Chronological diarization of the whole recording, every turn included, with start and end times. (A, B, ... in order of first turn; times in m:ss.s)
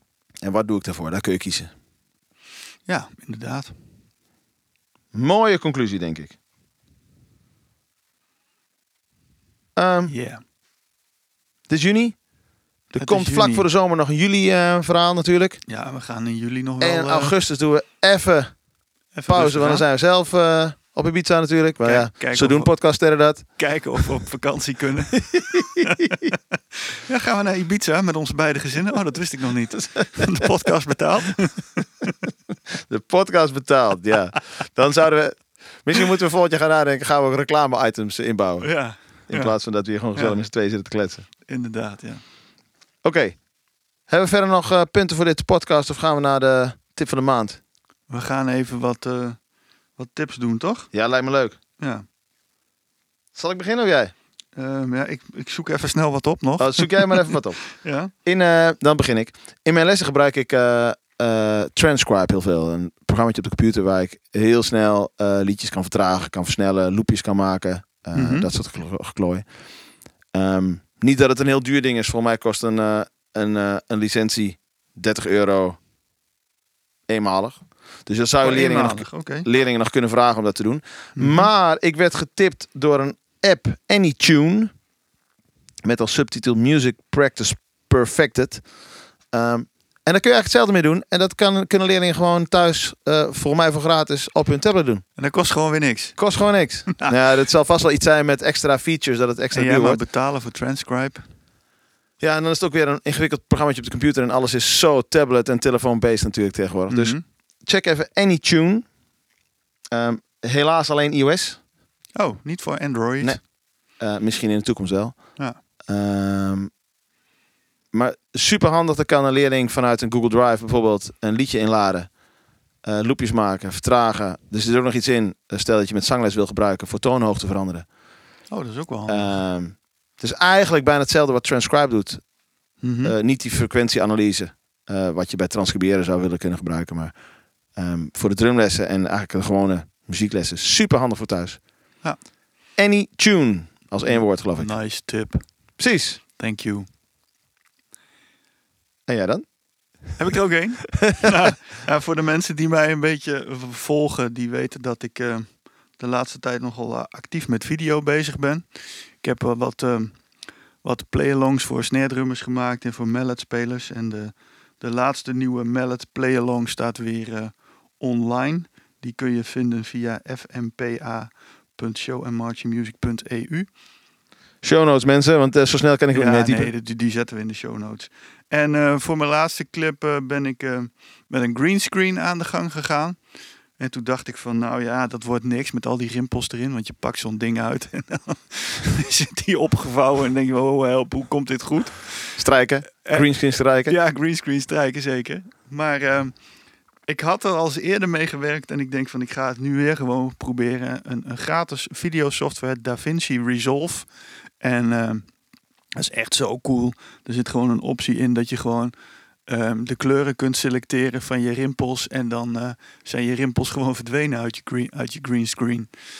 0:00.4-0:01.7 A
0:02.9-0:03.7 B
0:05.1-0:06.3 A
0:09.8-0:10.1 A
0:10.1-0:10.4 B
0:11.7-0:12.2 A
0:12.9-0:15.6 A
0:12.9-0:13.6 B
0:15.7-0:17.4 B
0:16.8-0:18.5 A
0:19.1-0:19.8 B
0:19.3-0:23.5 A
0:21.8-0:22.7 B
0:23.6-0:26.3 B
0:25.3-0:25.9 A
0:26.9-0:32.2 B
0:32.7-0:38.7 A
0:38.6-0:39.5 B
0:39.3-0:41.2 A
0:41.4-0:42.2 B
0:43.0-0:43.4 A
0:44.1-0:47.6 A
0:48.1-0:49.4 B
0:50.0-0:50.9 B
0:50.9-0:51.6 A
0:51.8-0:52.0 B
0:53.3-0:54.1 A
0:54.6-0:58.1 B
0:56.6-0:57.6 A
0:58.2-1:09.4 A
1:08.1-1:08.5 B
1:10.3-1:15.8 A
1:17.1-1:24.7 A
1:18.4-1:19.4 B
1:21.2-1:21.5 B
1:25.8-1:28.6 A
1:29.3-1:35.0 A
1:35.2-1:36.2 B
1:36.2-1:40.0 A
1:39.5-1:41.2 B
1:42.2-1:48.8 A
1:46.9-1:47.2 B
1:49.9-1:51.6 A
1:52.1-1:53.4 B
1:54.0-1:55.3 A
1:55.9-1:56.7 A
1:57.9-2:02.1 A
2:02.8-2:07.8 A
2:08.5-2:09.4 B
2:09.1-2:12.2 A
2:12.8-2:13.1 B
2:13.0-2:17.1 A
2:17.8-2:21.6 A
2:22.8-2:24.7 A
2:24.1-2:25.4 B
2:25.8-2:26.2 A
2:26.4-2:26.9 B
2:29.1-2:29.4 A
2:30.2-2:38.6 B
2:31.0-2:31.3 A
2:39.2-2:40.2 B
2:40.8-2:53.7 B
2:54.6-2:56.7 A
2:56.1-3:03.2 B
3:03.8-3:12.4 B
3:12.4-3:13.9 A
3:13.0-3:16.3 B
3:17.1-3:24.0 B
3:24.6-3:25.3 B
3:26.0-3:28.9 B
3:29.5-3:35.9 B